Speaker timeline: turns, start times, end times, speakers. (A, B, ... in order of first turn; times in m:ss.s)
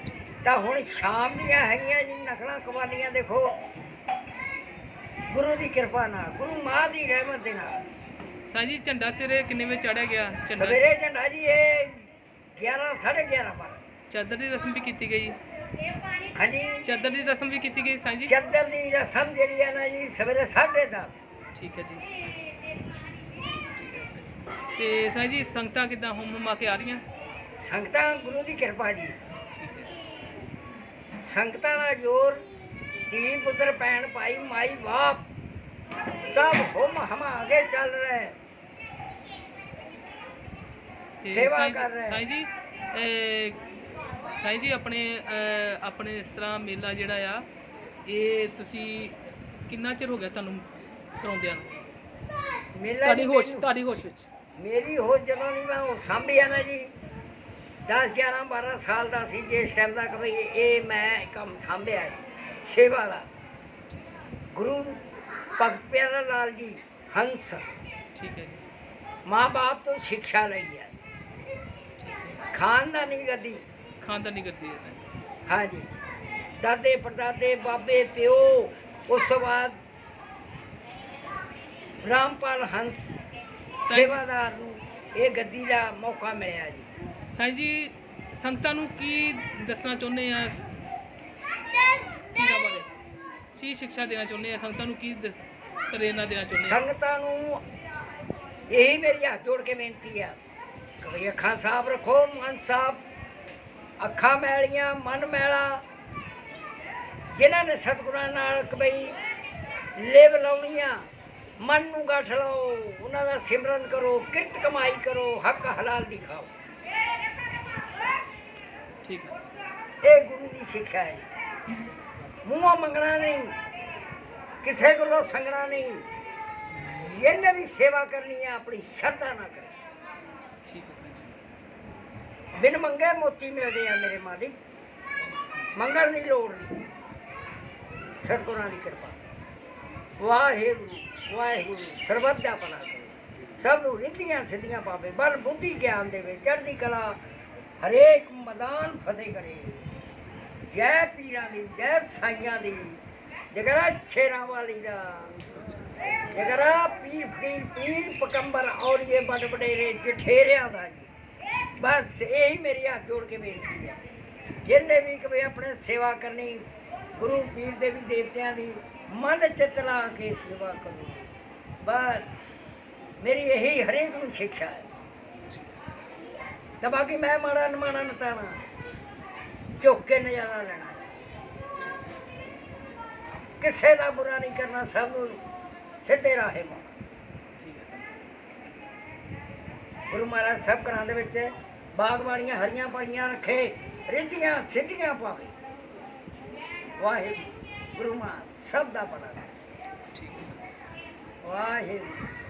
0:00.4-0:03.5 A
0:05.3-0:07.8 A
0:08.5-0:10.8 B
0:10.5-0:13.8 A
0:14.1-0:15.4 B
0:16.3-0:16.8 A
0:16.8-0:18.3 B
0:18.3-0:21.2 A
0:21.5-0:22.1 B
0:23.7-0:27.0 B
0:27.5-0:29.2 A
0:29.5-0:29.9 B
0:31.2-0:32.4 A
0:33.1-0:35.2 A
0:36.2-0:38.4 A
0:41.2-0:43.6 B
0:41.3-0:42.2 A
0:44.3-0:47.4 B
0:48.0-0:50.7 B
0:51.2-0:51.7 B
0:52.7-0:53.7 A
0:53.0-0:54.3 B
0:54.6-0:56.9 A
0:57.9-1:03.3 A
1:04.5-1:05.0 A
1:05.6-1:07.6 A
1:08.2-1:08.6 B
1:09.2-1:10.9 A
1:12.0-1:12.4 B
1:12.5-1:13.6 A
1:14.0-1:15.0 B
1:15.5-1:15.9 A
1:16.6-1:19.8 A
1:22.0-1:23.2 A
1:23.8-1:26.9 A
1:23.9-1:24.2 B
1:27.3-1:30.6 B
1:32.3-1:32.9 B
1:33.5-1:35.4 B
1:35.9-1:36.8 B
1:36.6-1:37.6 A
1:38.7-1:40.4 A
1:41.0-1:43.0 A
1:44.0-1:45.8 A
1:47.3-1:49.2 A
1:50.0-1:51.0 A
1:51.6-1:56.5 A
1:59.0-1:59.5 B
2:00.0-2:01.3 A
2:02.4-2:03.6 A
2:04.6-2:06.0 A
2:06.8-2:09.7 A
2:10.6-2:11.4 B
2:12.6-2:14.6 A
2:15.2-2:15.7 B
2:15.7-2:16.8 A
2:18.2-2:19.2 A
2:20.2-2:27.2 A
2:27.8-2:29.8 A
2:30.7-2:33.0 A
2:33.5-2:35.3 A
2:35.3-2:36.3 B
2:36.3-2:41.1 A
2:41.8-2:44.0 A
2:44.6-2:51.3 A
2:51.8-2:52.3 A
2:53.2-2:54.9 A
2:56.8-2:58.6 A
2:59.8-3:01.1 A
3:03.6-3:05.4 A
3:06.0-3:06.9 A
3:07.6-3:08.2 B
3:10.1-3:15.5 A
3:17.0-3:19.5 A
3:20.1-3:20.7 B
3:21.4-3:22.2 A